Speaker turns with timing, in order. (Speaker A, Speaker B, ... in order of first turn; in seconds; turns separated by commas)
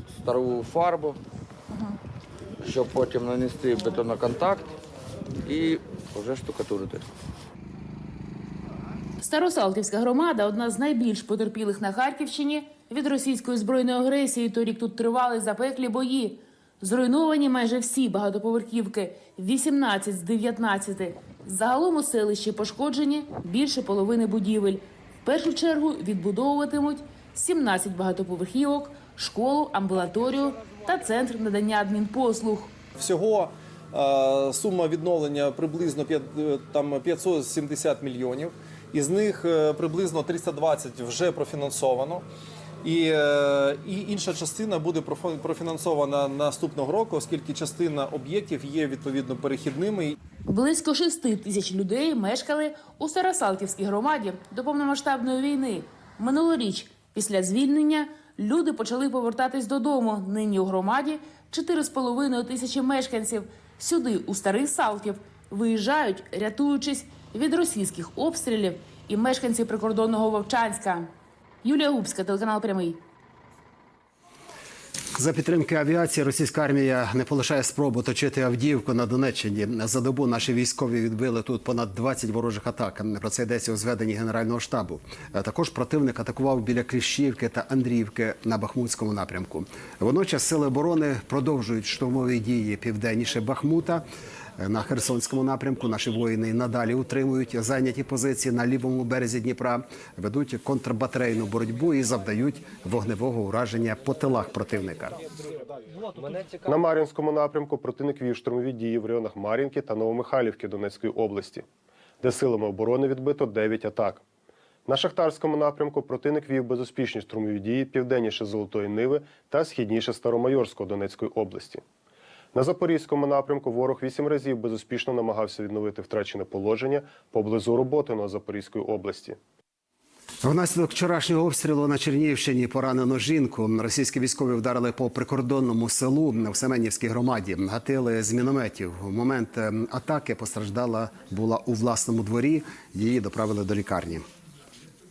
Speaker A: 0.2-1.2, Speaker A: 2.6-4.6, Speaker A: 5.5-7.0, Speaker B: 9.2-32.7, Speaker C: 33.0-42.2, Speaker C: 42.8-50.1, Speaker B: 50.5-71.1, Speaker B: 71.6-73.0, Speaker D: 75.2-94.0, Speaker D: 94.6-105.2, Speaker E: 106.6-111.6, Speaker E: 112.2-114.2, Speaker E: 114.9-121.8, Speaker E: 122.5-129.4, Speaker D: 130.4-144.2